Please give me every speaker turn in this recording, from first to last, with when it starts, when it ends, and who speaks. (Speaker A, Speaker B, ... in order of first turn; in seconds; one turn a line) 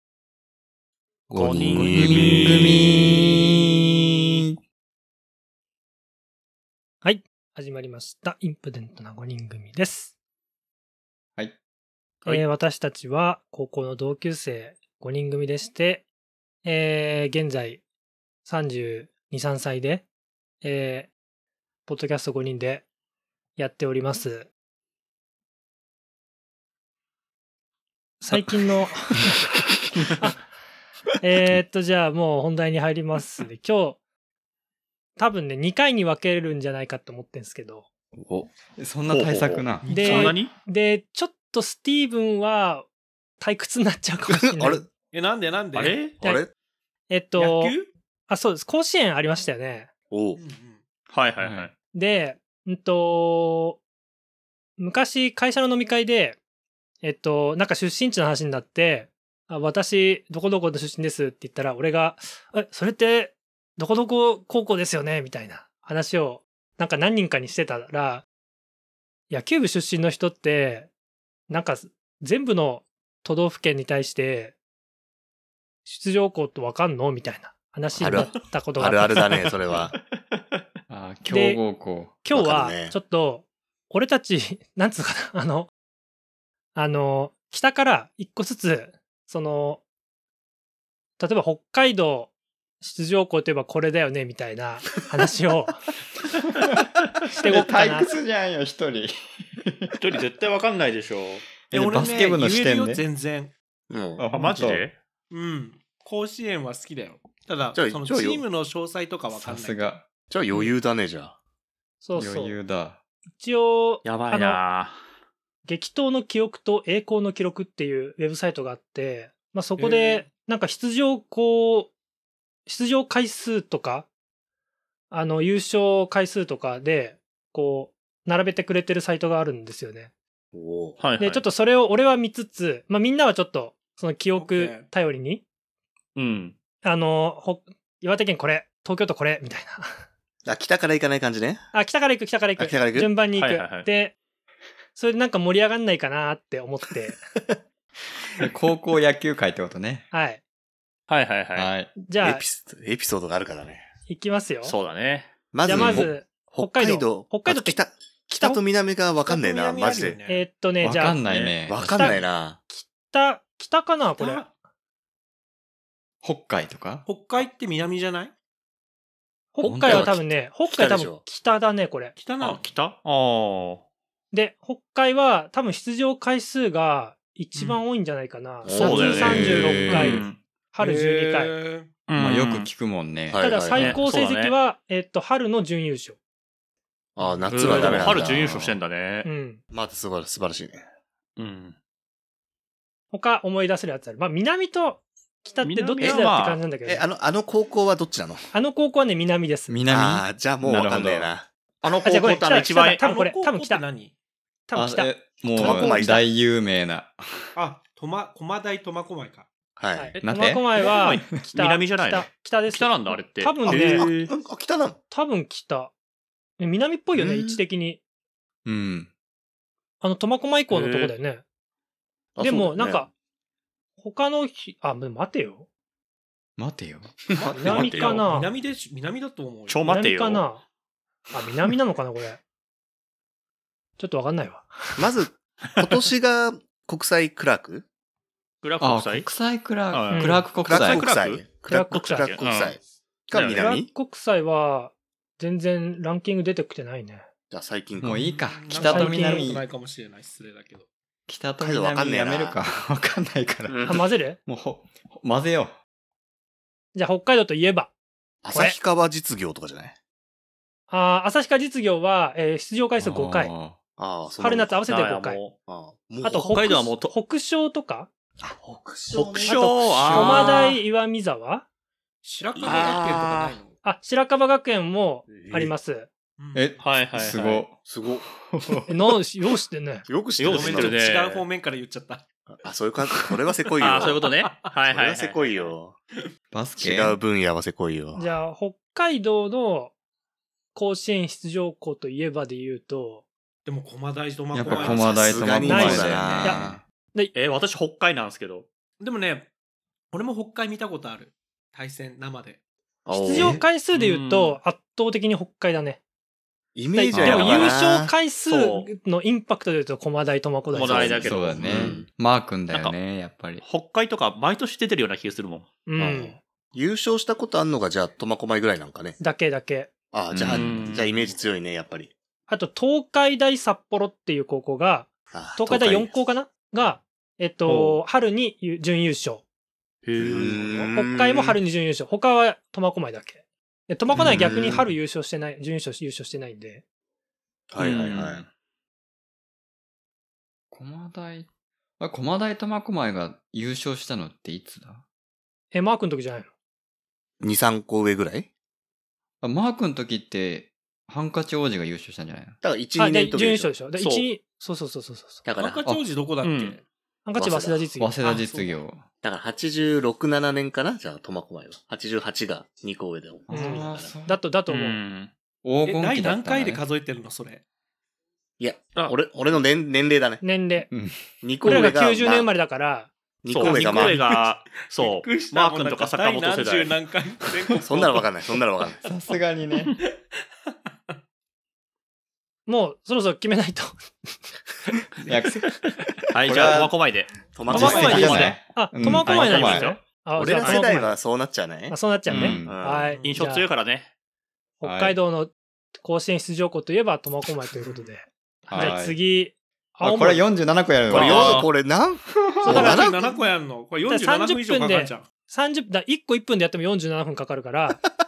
Speaker A: 1.3-3.1
Speaker B: 1.3-2.7
Speaker C: 1.7-3.7
Speaker D: 7.0-10.1
Speaker D: 12.2-16.1
Speaker D: 16.6-17.8
Speaker D: 18.4-20.1
Speaker D: 20.6-21.1
Speaker D: 21.9-22.9
Speaker D: 23.6-24.5
Speaker D: 28.2-29.4
Speaker D: 30.2-30.4
Speaker D: 31.2-34.0
Speaker D: 35.2-37.9
Speaker A: 38.2-38.5
Speaker C: 38.8-40.3
Speaker B: 39.1-40.5
Speaker E: 39.8-40.4
Speaker D: 39.9-42.9
Speaker D: 43.4-44.9
Speaker A: 44.3-44.9
Speaker E: 45.0-46.1
Speaker B: 45.7-46.2
Speaker A: 46.1-46.5
Speaker D: 47.1-47.8
Speaker E: 47.4-47.9
Speaker D: 48.3-49.9
Speaker A: 50.1-50.4
Speaker E: 50.4-50.8
Speaker B: 51.1-51.7
Speaker C: 51.4-51.7
Speaker D: 51.9-53.8
Speaker D: 54.8-56.4
Speaker D: 57.0-68.2
Speaker D: 69.3-70.9
Speaker D: 71.5-74.5
Speaker D: 75.9-79.2
Speaker A: 78.0-80.0
Speaker C: 80.9-82.2
Speaker D: 81.3-81.6
Speaker D: 82.2-85.7
Speaker A: 82.3-83.0
Speaker D: 86.8-89.8
Speaker D: 91.2-95.8
Speaker C: 97.3-100.0
Speaker D: 97.4-98.2
Speaker B: 100.0-101.5
Speaker C: 101.7-103.0
Speaker E: 101.7-103.5
Speaker A: 103.9-104.8
Speaker C: 104.2-104.8
Speaker B: 104.2-105.0
Speaker E: 105.3-110.0
Speaker A: 107.7-108.5
Speaker C: 109.3-110.0
Speaker A: 110.3-111.4
Speaker D: 112.0-112.6
Speaker C: 112.2-113.0
Speaker D: 113.4-114.6
Speaker B: 114.0-115.0
Speaker D: 115.7-121.9
Speaker E: 119.8-120.3
Speaker D: 122.7-124.1
Speaker D: 125.1-130.1
Speaker A: 130.5-131.0
Speaker B: 131.0-131.4
Speaker D: 131.2-135.4
Speaker E: 134.4-134.9
Speaker B: 136.2-136.6
Speaker D: 136.8-140.1
Speaker A: 140.5-141.7
Speaker D: 141.7-144.1
Speaker A: 142.6-143.1
Speaker B: 143.4-143.9
Speaker D: 144.9-147.2
Speaker C: 148.4-150.1
Speaker D: 150.1-150.4
Speaker B: 151.1-151.7
Speaker C: 151.6-151.9
Speaker D: 152.0-152.4
Speaker A: 152.2-153.9
Speaker D: 154.1-154.8
Speaker B: 154.6-155.3
Speaker A: 155.5-160.2
Speaker D: 155.7-158.6
Speaker C: 155.8-156.1
Speaker E: 159.3-160.5
Speaker D: 160.3-161.2
Speaker C: 160.8-162.2
Speaker B: 161.3-161.6
Speaker A: 161.7-162.6
Speaker D: 161.7-164.4
Speaker E: 164.2-164.5
Speaker C: 166.2-167.1
Speaker E: 167.1-168.3
Speaker D: 169.5-172.2
Speaker C: 169.6-170.2
Speaker A: 169.8-171.2
Speaker E: 172.2-172.6
Speaker B: 172.4-173.8
Speaker D: 174.3-181.6
Speaker A: 178.6-179.5
Speaker B: 178.7-180.4
Speaker C: 179.0-180.2
Speaker E: 180.8-182.0
Speaker B: 182.1-182.7
Speaker C: 182.2-184.0
Speaker A: 183.3-184.0
Speaker D: 183.4-186.2
Speaker B: 183.8-184.6
Speaker A: 187.2-188.6
Speaker E: 187.2-187.5
Speaker B: 187.5-189.3
Speaker C: 187.7-188.8
Speaker D: 189.2-189.6
Speaker A: 189.7-190.8
Speaker B: 191.4-191.8
Speaker D: 193.1-197.1
Speaker B: 195.6-196.6
Speaker A: 196.8-198.5
Speaker D: 198.5-199.8
Speaker C: 199.7-201.3
Speaker A: 199.9-201.5
Speaker B: 200.6-201.0
Speaker B: 201.8-203.0
Speaker D: 202.0-203.8
Speaker E: 202.5-204.1
Speaker D: 204.7-206.1
Speaker C: 204.7-207.5
Speaker A: 205.5-206.2
Speaker E: 207.6-209.5
Speaker A: 209.8-210.2
Speaker D: 209.9-214.1
Speaker C: 210.2-211.2
Speaker B: 210.8-214.3
Speaker A: 213.7-215.0
Speaker D: 215.1-215.9
Speaker D: 216.6-218.0
Speaker A: 217.2-217.6
Speaker C: 218.7-219.1
Speaker D: 220.0-221.4
Speaker B: 220.7-221.1
Speaker A: 222.4-223.1
Speaker D: 222.4-223.1
Speaker D: 224.0-225.7
Speaker C: 226.6-227.3
Speaker E: 227.3-229.9
Speaker A: 227.4-228.0
Speaker D: 227.5-228.5
Speaker B: 227.7-228.2
Speaker B: 229.7-230.4
Speaker D: 229.8-230.6
Speaker D: 231.3-232.4
Speaker D: 234.0-235.1
Speaker A: 235.0-237.9
Speaker B: 238.6-239.3
Speaker C: 238.8-241.1
Speaker B: 239.9-241.5
Speaker D: 240.1-240.5
Speaker A: 240.7-243.9
Speaker D: 241.7-242.3
Speaker B: 242.0-242.8
Speaker B: 243.3-243.7
Speaker D: 243.5-247.3
Speaker A: 247.5-248.4
Speaker C: 248.0-249.7
Speaker E: 248.2-250.9
Speaker D: 248.7-249.5
Speaker C: 251.3-255.8
Speaker A: 251.6-252.6
Speaker A: 253.7-254.0
Speaker D: 253.9-254.4
Speaker D: 256.9-257.9
Speaker A: 258.4-260.0
Speaker D: 258.5-258.8
Speaker D: 260.9-263.5
Speaker C: 263.0-263.8
Speaker A: 264.0-264.8
Speaker D: 264.4-265.4
Speaker B: 264.9-265.6
Speaker A: 265.7-266.6
Speaker D: 266.2-268.1
Speaker B: 266.5-267.1
Speaker A: 268.4-270.7
Speaker B: 269.1-270.8
Speaker D: 269.5-271.6
Speaker E: 272.2-273.8
Speaker A: 272.6-273.2
Speaker B: 272.6-273.6
Speaker D: 273.9-276.1
Speaker A: 275.3-275.7
Speaker E: 276.4-276.8
Speaker C: 276.5-277.8
Speaker B: 276.8-277.6
Speaker A: 277.8-278.3
Speaker C: 278.4-278.9
Speaker D: 278.9-280.1
Speaker A: 280.1-281.4
Speaker B: 280.4-281.4
Speaker E: 280.5-282.3
Speaker A: 282.5-284.2
Speaker E: 283.1-284.7
Speaker B: 283.8-285.7
Speaker A: 284.8-286.0
Speaker C: 286.5-287.2
Speaker A: 286.8-288.3
Speaker D: 288.1-289.9
Speaker D: 290.8-293.2
Speaker E: 293.6-296.2
Speaker C: 294.5-296.8
Speaker A: 294.6-296.8
Speaker D: 295.6-296.6
Speaker B: 297.3-298.7
Speaker E: 299.0-299.5
Speaker E: 300.1-302.6
Speaker A: 303.1-303.6
Speaker D: 303.1-306.0
Speaker B: 303.9-304.6
Speaker A: 306.8-308.1
Speaker D: 306.9-311.3
Speaker B: 307.1-307.8
Speaker B: 308.5-308.9
Speaker A: 310.7-312.1
Speaker B: 310.7-312.0
Speaker C: 311.2-313.6
Speaker B: 313.6-315.7
Speaker D: 315.9-316.4
Speaker A: 316.0-319.2
Speaker D: 319.2-319.9
Speaker A: 320.1-322.1
Speaker B: 320.3-321.3
Speaker D: 322.5-329.4
Speaker A: 325.3-326.2
Speaker B: 327.6-328.0
Speaker B: 330.1-330.9
Speaker A: 330.2-331.6
Speaker E: 330.3-330.9
Speaker D: 330.9-336.8
Speaker A: 334.1-334.9
Speaker A: 337.7-338.4
Speaker B: 337.8-338.5
Speaker C: 340.7-341.5
Speaker C: 342.0-345.0
Speaker D: 345.7-346.5
Speaker A: 347.4-348.5
Speaker C: 349.4-352.6
Speaker A: 352.6-353.7
Speaker D: 353.0-355.4
Speaker B: 354.0-354.3
Speaker A: 355.4-355.8
Speaker E: 355.6-356.8
Speaker B: 356.4-356.8
Speaker D: 357.2-358.1
Speaker A: 357.4-357.9
Speaker C: 358.0-359.1
Speaker E: 358.2-358.8
Speaker A: 359.2-364.1
Speaker C: 363.5-364.4
Speaker D: 363.5-365.0
Speaker B: 364.7-365.3
Speaker C: 365.6-366.8
Speaker E: 365.9-367.6
Speaker A: 368.6-370.4
Speaker D: 370.4-370.9
Speaker C: 370.9-371.3
Speaker A: 371.4-372.5
Speaker D: 371.6-373.1
Speaker A: 373.4-374.2
Speaker B: 373.5-377.0
Speaker E: 373.6-378.3
Speaker A: 377.8-379.0
Speaker C: 379.0-379.9
Speaker D: 382.7-384.4
Speaker C: 385.3-385.7
Speaker B: 386.3-388.6
Speaker C: 386.4-387.0
Speaker A: 387.5-388.6
Speaker C: 387.7-389.9
Speaker E: 387.7-388.5
Speaker D: 387.8-391.2
Speaker B: 389.2-390.0
Speaker A: 390.4-391.9
Speaker D: 391.9-393.7
Speaker C: 392.3-392.8
Speaker A: 392.6-393.2
Speaker E: 393.1-393.5
Speaker B: 393.2-394.1
Speaker D: 394.8-400.5
Speaker C: 394.8-395.2
Speaker E: 397.8-398.1
Speaker B: 398.7-399.0
Speaker C: 398.7-399.2
Speaker C: 400.0-401.7
Speaker B: 401.1-401.7
Speaker A: 401.1-403.5
Speaker C: 402.3-403.0
Speaker E: 402.6-405.3
Speaker D: 402.7-403.1
Speaker D: 404.1-408.0